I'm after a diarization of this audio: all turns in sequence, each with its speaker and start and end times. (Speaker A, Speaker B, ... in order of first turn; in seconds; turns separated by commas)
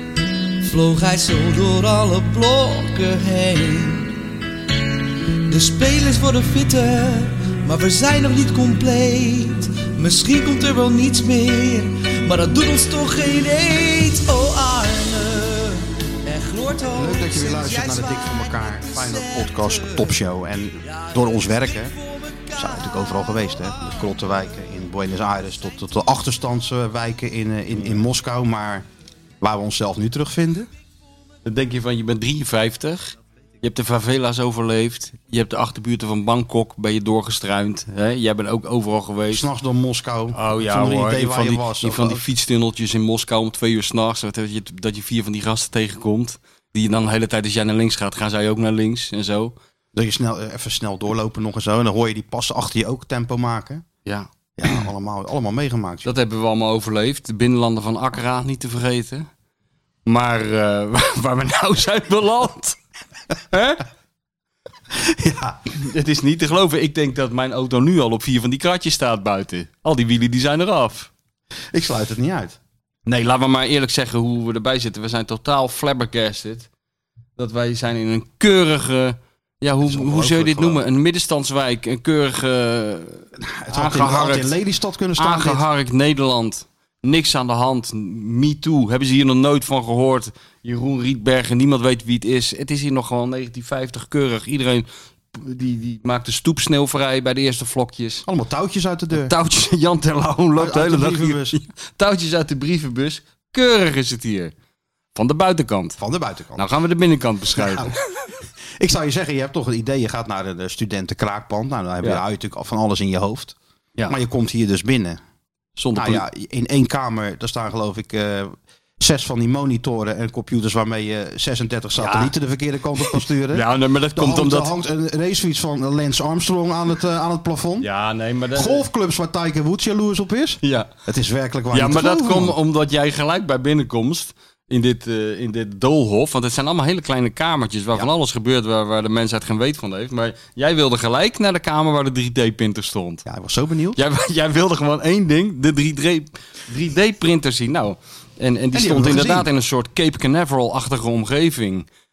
Speaker A: 0.6-4.2, Speaker A: 5.5-20.2, Speaker B: 16.9-21.9, Speaker A: 20.8-24.7, Speaker B: 22.6-28.9, Speaker B: 29.4-30.7, Speaker C: 31.4-39.5, Speaker B: 39.3-42.3, Speaker C: 40.3-49.5, Speaker B: 49.9-53.8, Speaker C: 54.1-54.8, Speaker B: 54.6-56.1, Speaker C: 56.0-59.3, Speaker C: 60.1-62.8, Speaker C: 63.5-63.8, Speaker B: 64.9-65.6, Speaker C: 65.7-71.1, Speaker B: 71.7-72.6, Speaker C: 73.1-76.7, Speaker C: 77.4-84.5, Speaker B: 79.8-80.8, Speaker B: 83.4-85.6, Speaker C: 85.2-98.3, Speaker B: 98.2-99.3, Speaker C: 99.1-104.5, Speaker B: 100.6-101.6, Speaker C: 105.2-106.0, Speaker B: 106.0-106.7, Speaker C: 106.6-108.0, Speaker B: 107.6-108.0, Speaker B: 108.8-113.5, Speaker B: 114.1-115.2, Speaker C: 115.8-116.2, Speaker B: 116.0-127.9, Speaker C: 122.0-122.3, Speaker C: 123.0-124.7, Speaker C: 127.8-128.8, Speaker B: 128.5-132.6, Speaker C: 130.6-130.9, Speaker C: 131.7-143.3, Speaker B: 143.3-144.0, Speaker C: 144.0-151.9, Speaker B: 148.7-149.5